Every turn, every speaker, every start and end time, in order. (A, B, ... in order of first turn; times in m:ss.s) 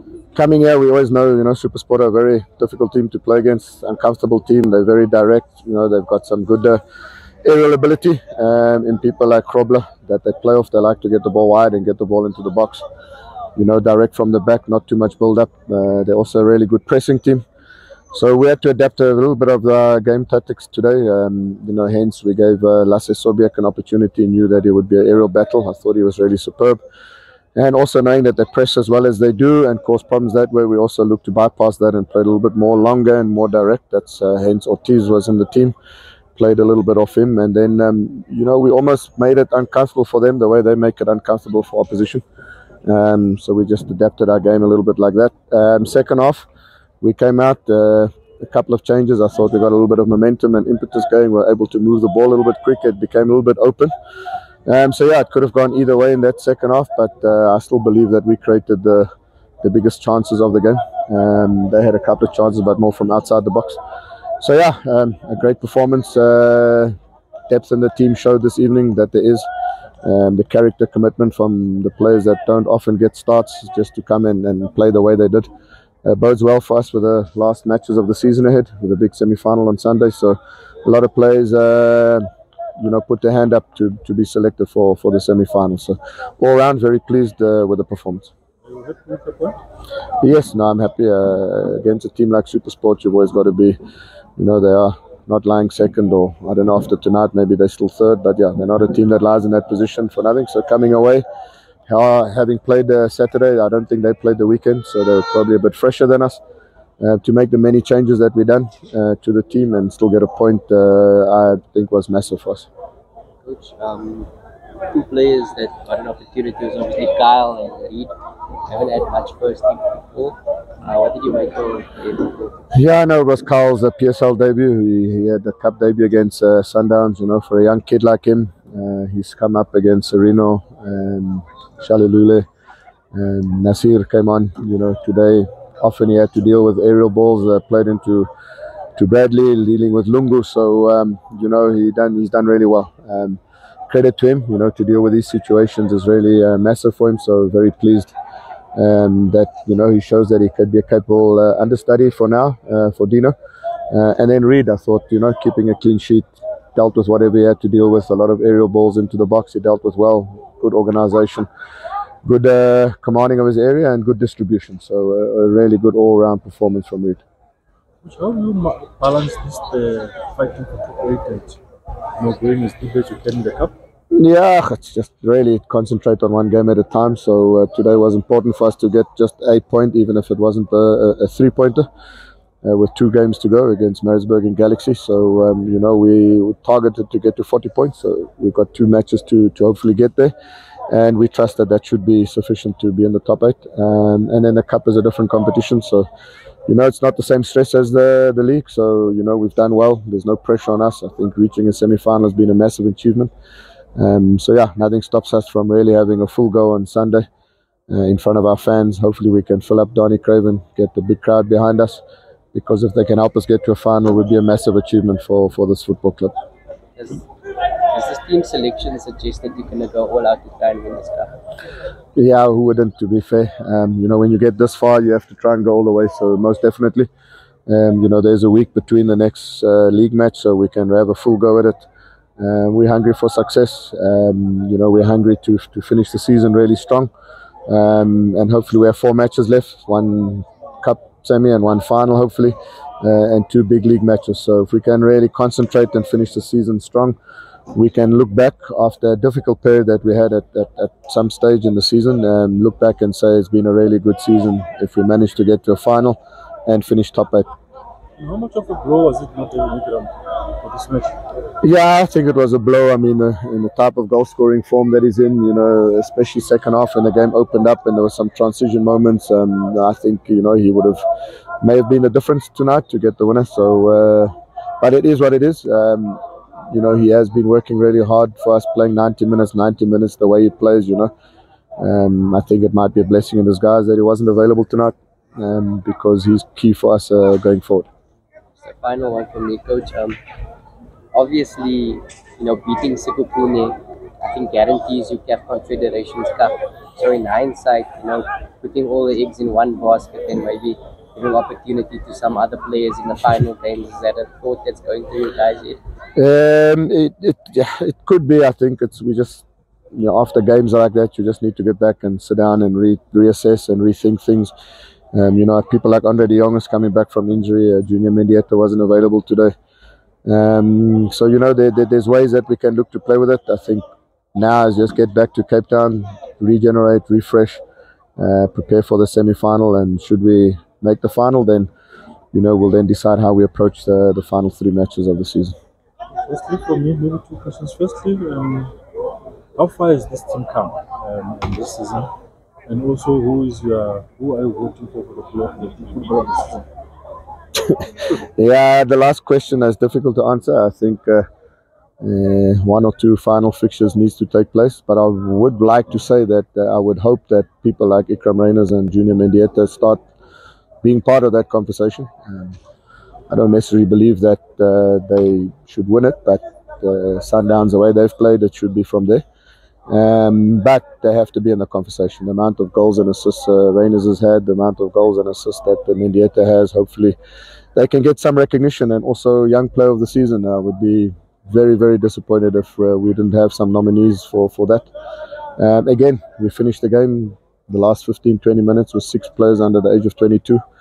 0:00.3-0:06.8 A
0:07.4-0:12.8 A
0:13.6-0:17.4 A
0:18.1-0:26.8 A
0:27.6-0:35.7 A
0:36.4-0:42.2 A
0:42.8-0:46.4 A
0:47.0-0:53.9 A
0:54.6-0:59.1 A
0:59.6-1:03.8 A
1:04.4-1:06.9 A
1:07.5-1:09.4 A
1:10.0-1:15.5 A
1:16.0-1:22.2 A
1:22.8-1:28.3 A
1:28.6-1:29.6 B
1:30.2-1:33.8 A
1:34.4-1:41.2 A
1:41.9-1:46.4 A
1:47.0-1:52.7 A
1:53.4-1:54.3 C
1:54.9-1:58.1 C
1:58.7-2:02.6 C
2:02.7-2:12.4 A
2:13.1-2:18.3 A
2:19.0-2:28.1 A
2:28.7-2:33.3 A
2:33.9-2:41.5 A
2:42.2-2:47.2 A
2:48.0-2:51.6 B
2:52.2-2:53.7 B
2:54.1-3:01.8 A
3:02.6-3:10.3 A
3:10.9-3:16.1 A
3:16.7-3:23.3 A
3:24.0-3:27.3 A
3:27.9-3:32.0 A
3:32.5-3:36.3 A
3:37.0-3:37.2 C
3:37.9-3:41.4 C
3:42.2-3:47.1 A
3:47.7-3:51.9 A
3:52.4-3:57.1 A
3:57.7-4:07.2 A
4:07.7-4:17.5 A
4:18.2-4:21.2 B
4:21.6-4:31.0 A
4:31.6-4:36.2 A
4:36.7-4:41.1 A
4:41.8-4:47.9 A
4:48.6-4:50.2 C
4:51.1-5:05.8 C
5:06.2-5:14.5 A
5:15.1-5:19.5 A
5:20.2-5:27.6 A
5:28.2-5:31.7 A
5:32.3-5:35.6 A
5:36.3-5:38.7 B
5:39.5-5:42.1 B
5:42.7-5:46.6 B
5:48.4-5:51.2 A
5:52.0-6:00.0 A
6:00.8-6:02.6 A
6:03.3-6:09.2 A
6:09.9-6:17.2 A
6:17.7-6:24.9 A
6:25.6-6:30.6 A